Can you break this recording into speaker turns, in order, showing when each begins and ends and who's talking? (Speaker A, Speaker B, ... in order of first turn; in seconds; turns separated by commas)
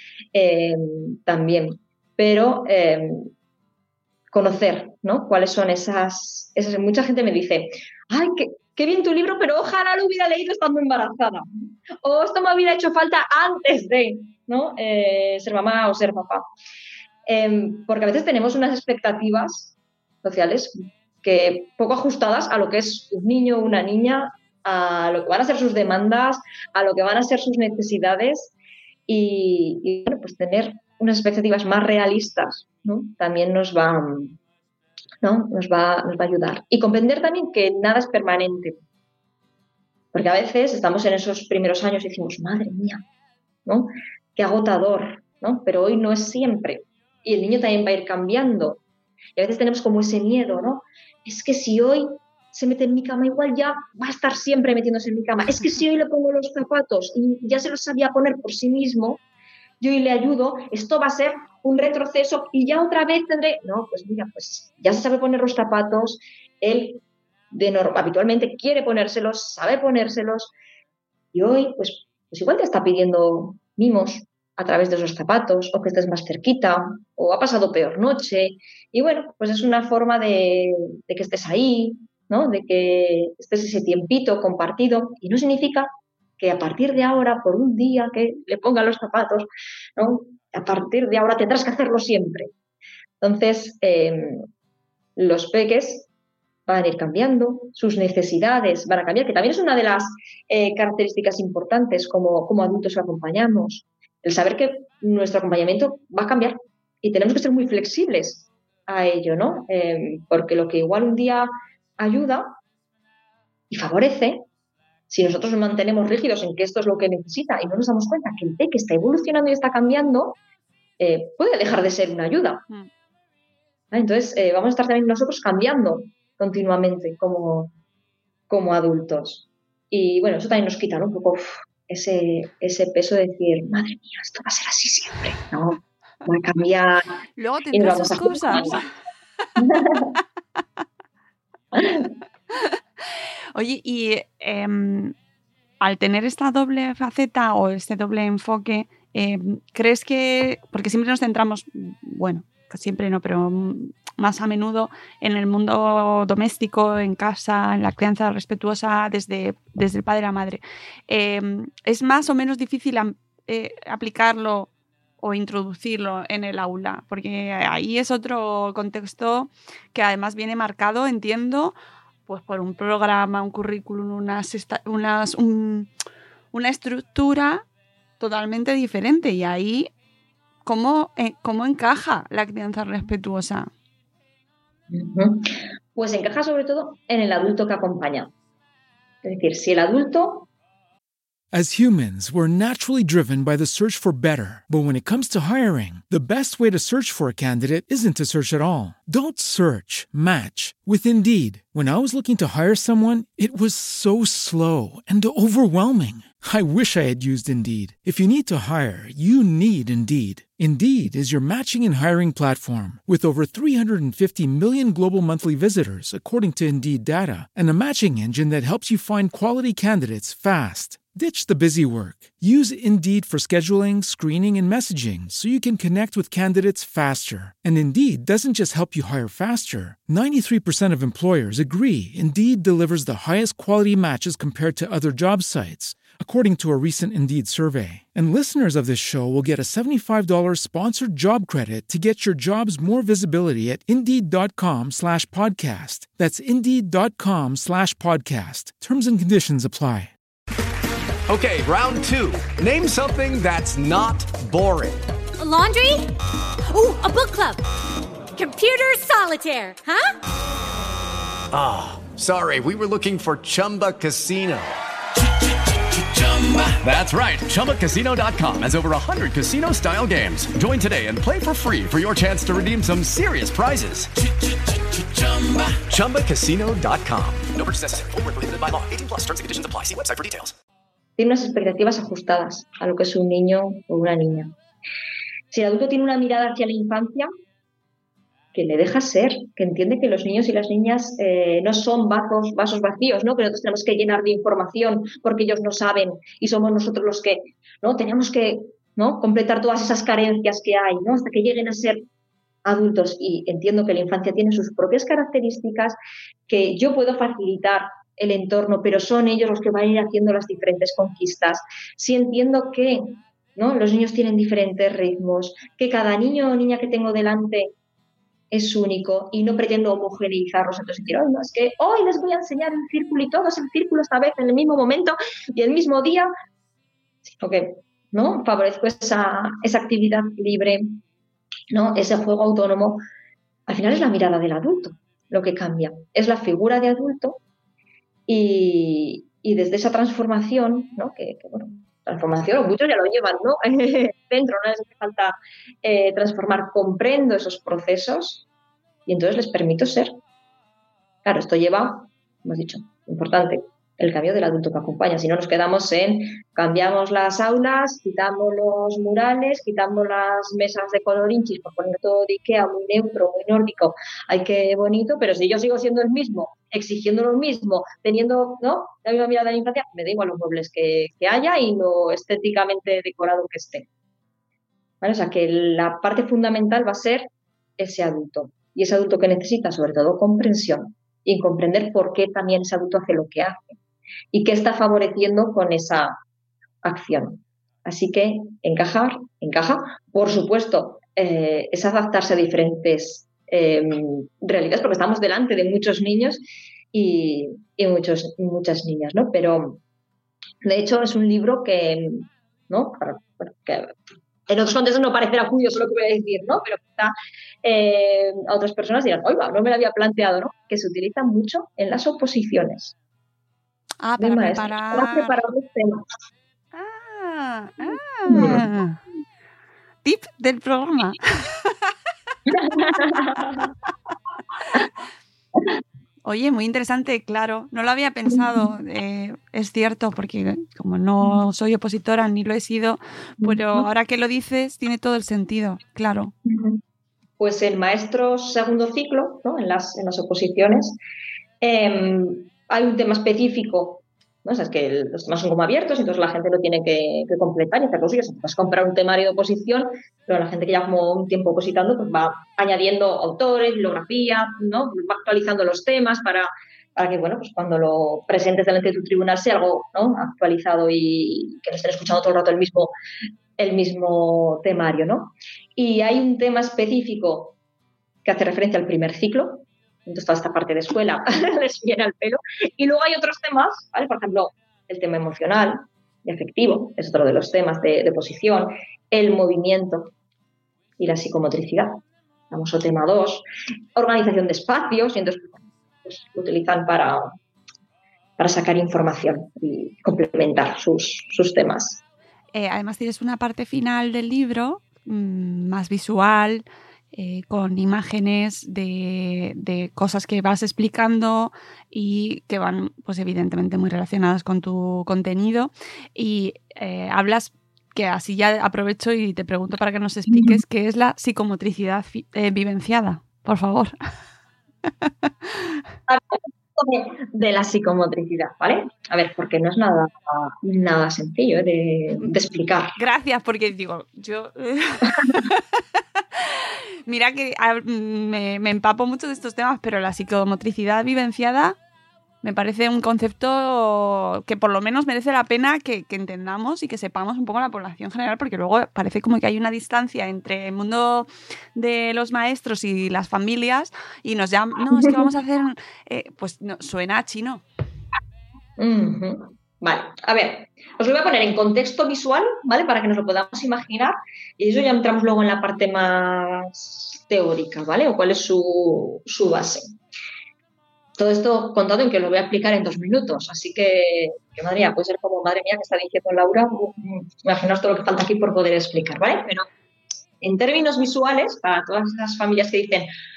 Speaker A: 0.3-3.3, Speaker A: 4.3-16.5, Speaker A: 17.3-28.5, Speaker A: 29.1-34.4, Speaker A: 35.2-38.8, Speaker A: 40.1-43.0, Speaker A: 43.7-48.8, Speaker A: 49.4-59.2, Speaker A: 59.8-70.5, Speaker A: 71.3-92.5, Speaker A: 93.2-94.5, Speaker A: 95.2-96.1, Speaker A: 96.7-112.6, Speaker A: 113.7-114.5, Speaker A: 115.1-120.4, Speaker A: 121.0-122.6, Speaker A: 123.9-127.7, Speaker A: 128.5-137.2, Speaker B: 137.4-138.8, Speaker A: 137.7-138.8, Speaker A: 139.6-140.1, Speaker A: 141.7-142.1, Speaker B: 143.5-145.2, Speaker B: 145.8-171.8, Speaker B: 172.3-175.9, Speaker B: 176.5-177.6, Speaker B: 178.2-179.9, Speaker B: 180.7-183.7, Speaker A: 184.9-188.3, Speaker A: 189.2-190.5, Speaker C: 191.5-250.1, Speaker D: 251.3-255.1, Speaker E: 255.4-256.1, Speaker E: 256.7-257.6, Speaker E: 258.3-260.1, Speaker D: 261.5-264.7, Speaker D: 265.9-274.1, Speaker D: 274.9-280.5, Speaker A: 281.2-284.6, Speaker A: 285.5-287.3, Speaker A: 288.5-302.1, Speaker A: 302.6-306.0, Speaker A: 306.5-317.7, Speaker A: 318.5-326.3, Speaker A: 327.3-331.0, Speaker A: 331.7-333.0, Speaker A: 333.7-337.4, Speaker A: 338.3-348.4, Speaker A: 349.1-350.2, Speaker A: 351.2-373.9, Speaker A: 375.0-383.7, Speaker A: 384.3-386.2, Speaker A: 386.8-399.8, Speaker A: 400.6-412.9, Speaker B: 414.0-415.3, Speaker A: 414.2-416.1, Speaker B: 416.7-419.0, Speaker A: 418.3-418.7, Speaker B: 420.0-421.7, Speaker A: 422.5-423.4, Speaker B: 426.2-436.3, Speaker A: 433.4-433.9, Speaker A: 436.5-436.8, Speaker A: 437.4-441.0, Speaker A: 441.6-462.9, Speaker A: 463.6-467.6, Speaker A: 468.2-480.1, Speaker A: 481.0-483.4, Speaker A: 483.9-487.4, Speaker A: 488.4-492.0, Speaker B: 492.5-514.0, Speaker A: 510.3-510.6, Speaker A: 516.1-523.0, Speaker B: 523.0-525.6, Speaker B: 526.4-531.8, Speaker B: 532.4-547.6, Speaker A: 548.8-559.9, Speaker A: 561.2-569.7, Speaker A: 570.4-573.1